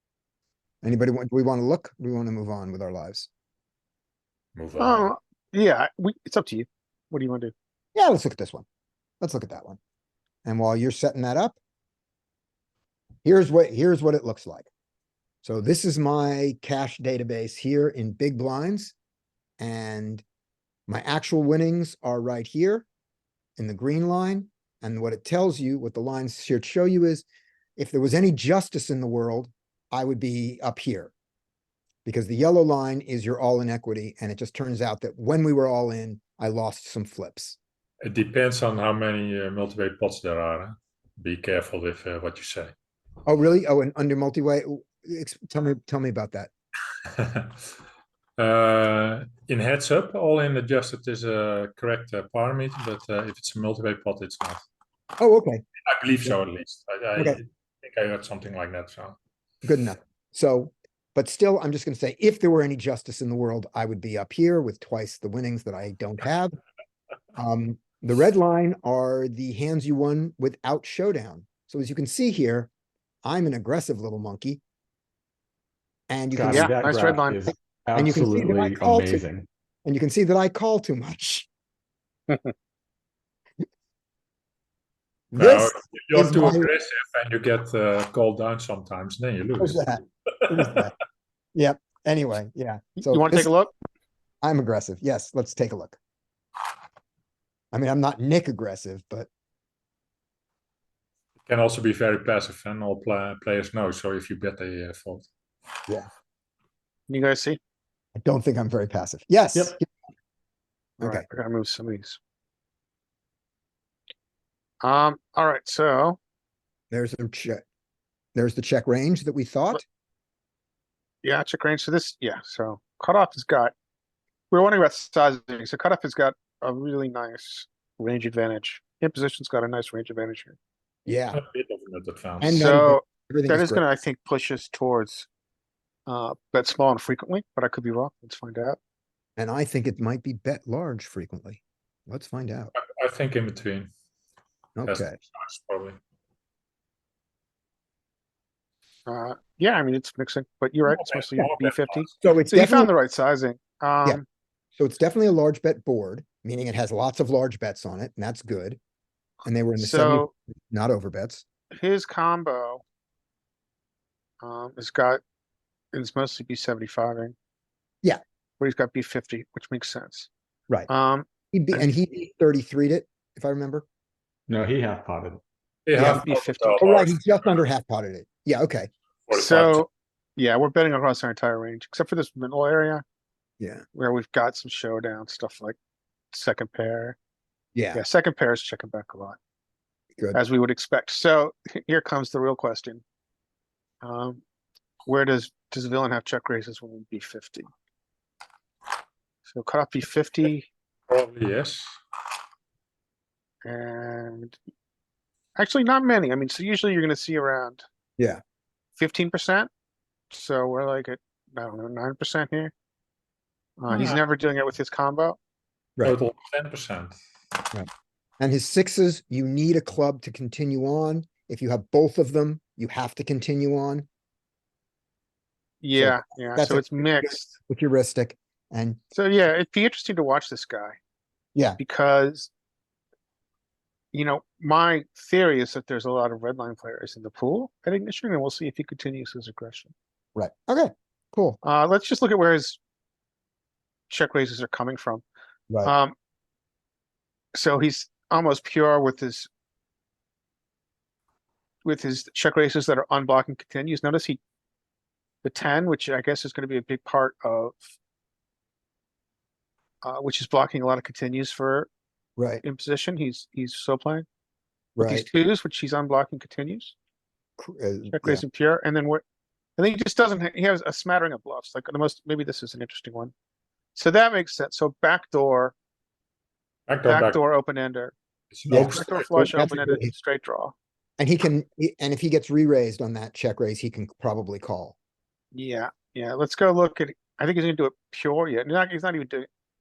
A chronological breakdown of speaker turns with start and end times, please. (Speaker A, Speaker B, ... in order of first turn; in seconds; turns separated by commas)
Speaker A: 0.8-3.3, Speaker B: 4.5-5.1, Speaker C: 4.8-7.5, Speaker A: 7.9-8.7, Speaker A: 9.2-9.8, Speaker A: 10.4-11.6, Speaker A: 13.2-14.7, Speaker A: 15.4-18.9, Speaker A: 19.6-20.2, Speaker A: 20.9-22.9, Speaker A: 23.6-27.2, Speaker A: 27.8-31.1, Speaker A: 32.0-37.6, Speaker B: 38.0-42.7, Speaker A: 43.2-46.5, Speaker B: 47.1-47.6, Speaker B: 48.4-54.6, Speaker A: 55.2-55.6, Speaker B: 55.9-59.2, Speaker A: 59.6-66.6, Speaker A: 67.4-72.7, Speaker A: 73.2-74.6, Speaker A: 76.1-76.9, Speaker D: 76.4-79.5, Speaker C: 76.5-77.5, Speaker A: 77.9-79.2, Speaker A: 79.8-81.5, Speaker A: 85.3-86.7, Speaker B: 85.4-89.8, Speaker A: 89.6-90.9, Speaker B: 90.4-90.8, Speaker A: 91.5-93.5, Speaker C: 93.0-93.7, Speaker A: 94.4-96.0, Speaker A: 97.7-99.3, Speaker B: 101.4-105.3, Speaker C: 107.1-107.6, Speaker A: 108.2-109.9, Speaker C: 111.0-112.2, Speaker A: 111.0-111.2, Speaker C: 114.8-116.2, Speaker A: 116.9-117.6, Speaker A: 118.3-119.8, Speaker C: 121.2-123.7, Speaker C: 124.5-130.6, Speaker A: 131.1-131.4, Speaker B: 131.3-132.7, Speaker A: 132.4-133.8, Speaker C: 132.6-135.3, Speaker C: 136.1-138.8, Speaker A: 139.4-142.7, Speaker B: 142.8-143.9, Speaker A: 144.8-145.2, Speaker B: 144.9-146.0, Speaker C: 149.1-154.2, Speaker B: 150.8-152.2, Speaker A: 152.2-152.9, Speaker A: 154.8-158.8, Speaker A: 159.4-161.4, Speaker C: 159.8-160.3, Speaker C: 161.7-162.8, Speaker C: 164.4-165.2, Speaker C: 165.9-167.3, Speaker C: 168.6-170.3, Speaker C: 170.9-171.8, Speaker A: 171.5-173.8, Speaker D: 174.5-175.4, Speaker B: 175.9-177.6, Speaker A: 175.9-176.2, Speaker C: 175.9-176.8, Speaker A: 176.8-178.9, Speaker B: 179.2-179.8, Speaker C: 179.3-183.0, Speaker A: 183.6-183.8, Speaker C: 183.9-185.8, Speaker C: 186.3-187.2, Speaker A: 187.8-188.0, Speaker C: 187.9-189.4, Speaker C: 190.3-193.0, Speaker C: 194.0-194.4, Speaker C: 195.0-197.7, Speaker C: 199.4-200.7, Speaker B: 201.1-201.9, Speaker C: 203.6-204.6, Speaker C: 205.6-207.8, Speaker C: 209.0-209.7, Speaker C: 210.3-212.7, Speaker C: 213.8-215.4, Speaker B: 216.0-217.2, Speaker A: 218.4-224.1, Speaker C: 225.8-227.5, Speaker A: 225.9-229.0, Speaker C: 229.1-230.9, Speaker A: 231.5-231.8, Speaker C: 231.8-232.5, Speaker C: 234.1-239.9, Speaker A: 240.3-241.6, Speaker C: 241.6-242.8, Speaker C: 244.1-245.2, Speaker C: 245.8-246.1, Speaker C: 247.5-249.5, Speaker C: 251.8-254.4, Speaker C: 255.4-257.9, Speaker C: 260.0-261.9, Speaker A: 262.4-262.6, Speaker C: 262.6-264.2, Speaker A: 264.9-265.3, Speaker C: 265.0-266.9, Speaker A: 267.6-268.4, Speaker C: 268.1-269.2, Speaker C: 269.8-273.3, Speaker C: 273.9-275.8, Speaker B: 276.9-277.4, Speaker C: 277.0-278.1, Speaker B: 278.5-279.4, Speaker A: 278.7-280.1, Speaker C: 278.8-280.8, Speaker A: 281.2-284.9, Speaker C: 285.5-289.5